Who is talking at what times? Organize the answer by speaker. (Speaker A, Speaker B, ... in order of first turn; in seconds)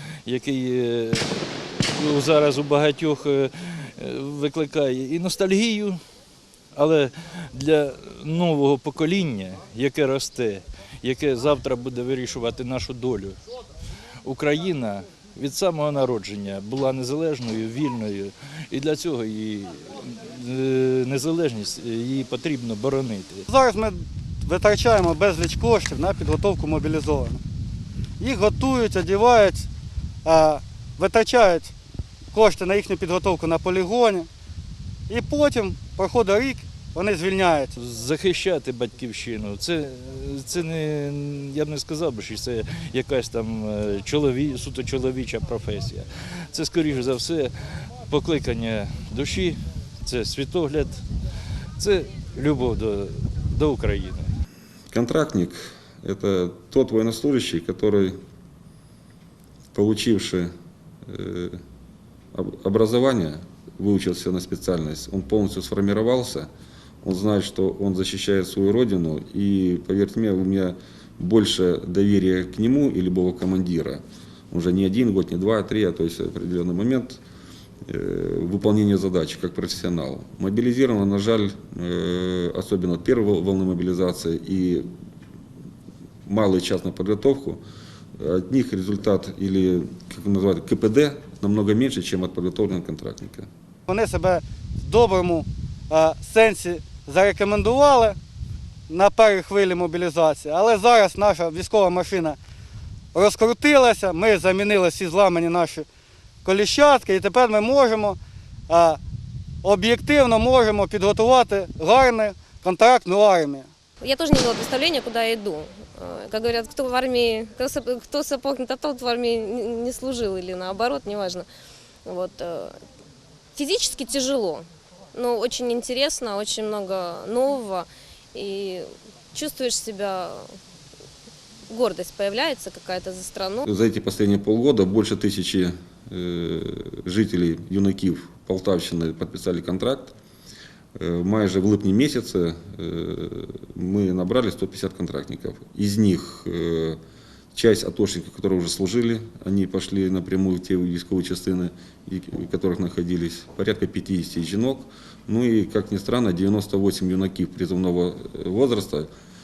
Speaker A: 0.3-6.0, 6.8-13.4, 14.2-23.4, 37.8-47.5, 48.1-51.0, 51.8-54.3
Speaker B: 23.5-27.4, 28.2-29.7, 30.2-31.7, 32.3-34.3, 35.1-37.7, 93.9-98.2, 98.9-102.4, 103.1-105.9, 106.5-108.2, 108.7-109.0, 109.6-113.7
Speaker C: 54.9-58.1, 59.7-60.5, 61.1-61.6, 62.3-66.5, 67.0-77.2, 77.9-84.9, 86.3-87.6, 88.2-93.5, 133.7-140.1, 141.0-147.0, 147.5-159.1
Speaker D: 114.0-121.5, 122.0-122.7, 123.6-130.5, 131.7-133.7